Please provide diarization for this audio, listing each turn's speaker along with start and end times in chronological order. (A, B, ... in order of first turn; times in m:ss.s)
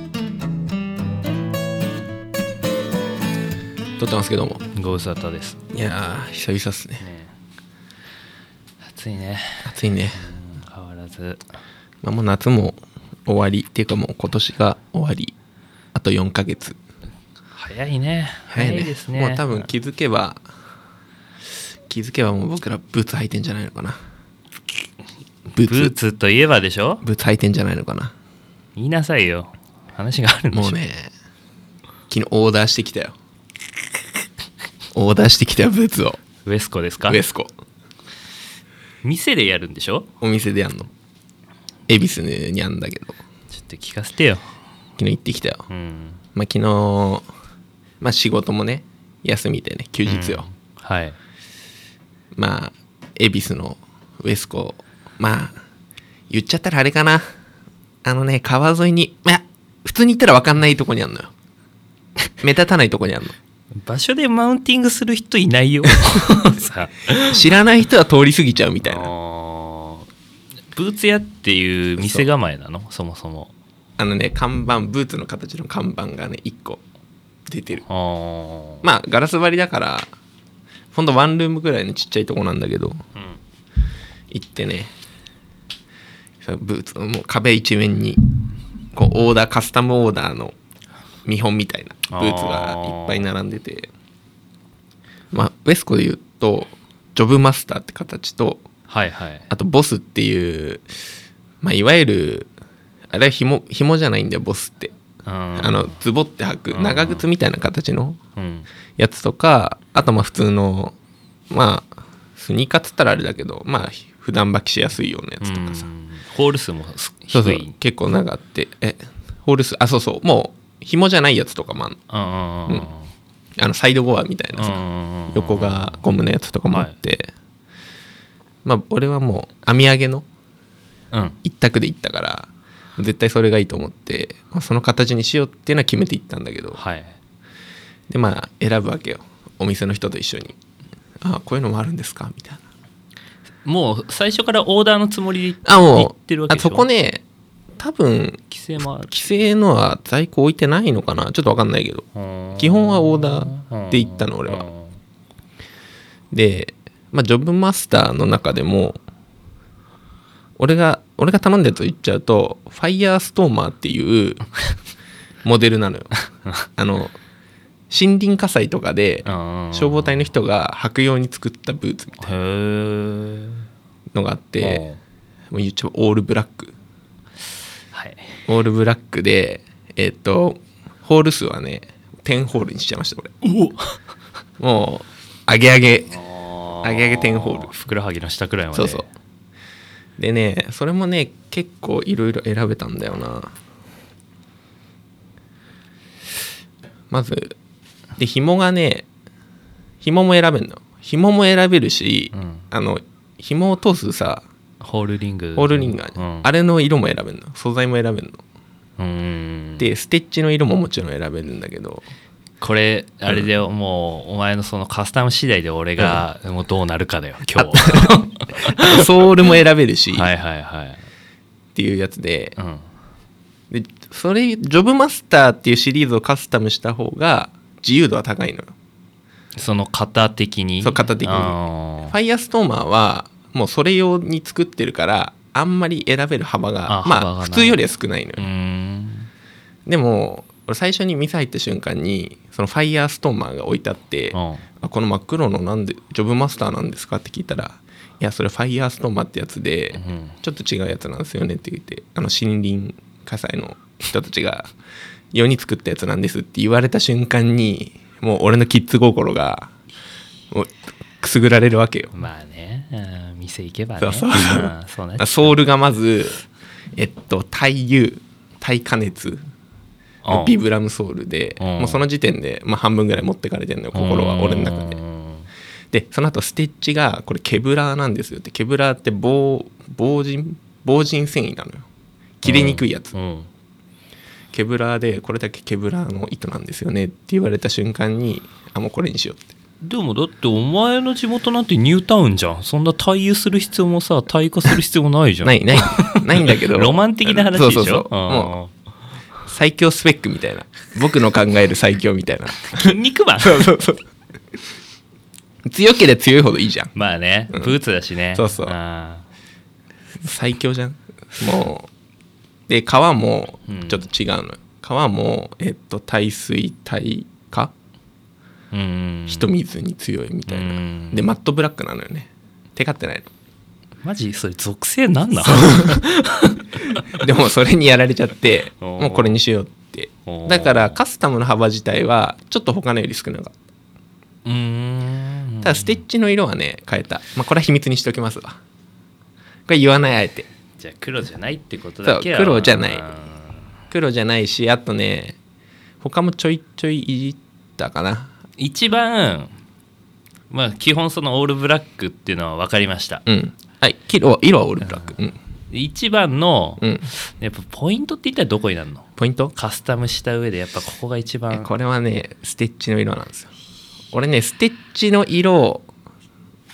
0:04.0-0:04.6 A
0:04.8-0:05.6 B
0:05.7-0:07.0 A
0:07.0-0:07.3 B
0:08.8-0:11.4 B
0:09.6-0:10.2 A
0:12.0-0:15.3 A
0:15.9-0:16.8 A
0:17.5-0:19.7 B
0:18.5-0:20.4 A
0:21.9-0:24.0 A
0:25.5-0:25.9 A
0:25.6-0:27.0 B
0:27.0-0:28.1 A
0:28.8-0:30.8 B
0:30.5-0:31.1 A
0:32.1-0:33.1 A
0:34.9-0:36.2 A
0:36.4-0:37.2 B
0:37.1-0:37.5 A
0:39.0-0:40.1 B
0:40.2-0:40.9 A
0:41.9-0:43.2 A
0:43.5-0:44.5 B
0:45.0-0:45.6 A
0:45.7-0:46.2 B
0:46.4-0:47.3 A
0:48.0-0:50.4 A
0:50.1-0:51.2 B
0:52.4-0:55.6 A
0:56.3-0:57.2 A
0:58.0-1:01.3 A
1:02.4-1:03.3 A
1:03.8-1:07.4 B
1:07.2-1:09.1 A
1:08.8-1:10.1 B
1:10.7-1:13.5 B
1:12.0-1:12.3 A
1:14.0-1:16.8 A
1:17.5-1:17.8 A
1:17.9-1:18.9 B
1:18.8-1:20.1 A
1:20.9-1:23.0 A
1:24.3-1:24.9 A
1:26.4-1:28.2 A
1:28.9-1:30.5 A
1:31.3-1:33.9 A
1:32.1-1:33.3 B
1:35.3-1:38.6 A
1:38.9-1:39.5 B
1:39.5-1:40.9 A
1:41.6-1:42.5 A
1:43.1-1:44.9 A
1:45.2-1:46.0 B
1:45.6-1:48.2 A
1:46.7-1:47.3 B
1:48.4-1:48.7 B
1:49.0-1:51.0 A
1:51.5-1:55.9 A
1:55.4-1:57.7 B
1:57.3-2:02.0 A
2:02.1-2:03.1 B
2:03.6-2:07.3 A
2:04.6-2:06.0 B
2:06.7-2:07.0 B
2:08.6-2:10.3 A
2:11.1-2:11.4 B
2:11.4-2:16.8 A
2:16.8-2:17.2 B
2:18.1-2:20.6 A
2:21.2-2:22.6 A
2:23.6-2:26.9 B
2:25.6-2:27.2 A
2:27.8-2:28.4 A
2:28.5-2:29.1 B
2:29.1-2:34.7 A
2:32.2-2:35.0 B
2:36.3-2:39.0 A
2:40.6-2:44.4 A
2:45.4-2:46.1 A
2:46.8-2:47.2 A
2:47.9-2:52.3 A
2:49.2-2:50.3 B
2:52.2-2:53.7 B
2:54.1-2:54.8 A
2:54.6-2:55.0 B
2:55.5-2:56.7 A
2:57.9-2:58.3 B
2:58.5-3:03.3 A
3:03.4-3:04.0 B
3:04.6-3:06.1 A
3:06.1-3:09.1 B
3:06.8-3:07.7 A
3:08.7-3:09.0 A
3:10.2-3:13.5 A
3:17.1-3:17.6 A
3:18.2-3:19.1 A
3:20.0-3:24.4 A
3:22.3-3:22.6 B
3:24.8-3:26.5 B
3:25.6-3:28.4 A
3:29.0-3:29.9 B
3:29.8-3:32.0 A
3:32.6-3:39.0 B
3:37.6-3:40.3 A
3:40.1-3:41.0 B
3:41.8-3:42.6 A
3:42.6-3:42.8 B
3:43.7-3:48.7 A
3:49.6-3:52.2 B
3:50.8-3:58.5 A
3:56.9-3:57.8 B
3:58.4-3:59.3 B
3:59.9-4:14.7 A
4:04.3-4:04.6 B
4:10.0-4:10.4 B
4:15.3-4:19.7 A
4:20.5-4:22.2 A
4:22.1-4:25.6 B
4:24.0-4:26.4 A
4:27.0-4:29.4 A
4:30.2-4:30.6 B
4:30.3-4:35.0 A
4:31.6-4:32.0 B
4:33.9-4:35.5 B
4:35.9-4:41.9 A
4:42.4-4:43.1 A
4:42.4-4:43.5 B
4:44.5-4:49.5 A
4:49.8-4:58.7 B
4:55.4-4:58.6 A
4:59.5-5:04.0 A
5:02.7-5:03.8 B
5:05.6-5:06.9 A
5:07.0-5:09.2 B
5:08.4-5:08.8 A
5:10.2-5:11.9 A
5:12.7-5:17.7 A
5:13.7-5:14.1 B
5:18.7-5:19.5 B
5:19.3-5:23.3 A
5:20.5-5:21.2 B
5:24.0-5:27.2 B
5:25.4-5:26.0 A
5:27.1-5:33.5 A
5:28.8-5:29.4 B
5:30.3-5:31.0 B
5:34.4-5:36.0 B
5:35.6-5:38.6 A
5:39.7-5:40.5 A
5:40.8-5:43.7 B
5:42.0-5:43.1 A
5:43.9-5:45.4 A
5:46.0-5:48.3 A
5:48.6-5:49.5 B
5:50.5-5:53.2 B
5:53.3-5:55.4 A
5:54.8-5:55.2 B
5:55.7-6:01.7 B
5:56.8-5:57.1 A
5:59.2-5:59.5 A
6:01.5-6:03.5 A
6:04.1-6:05.9 A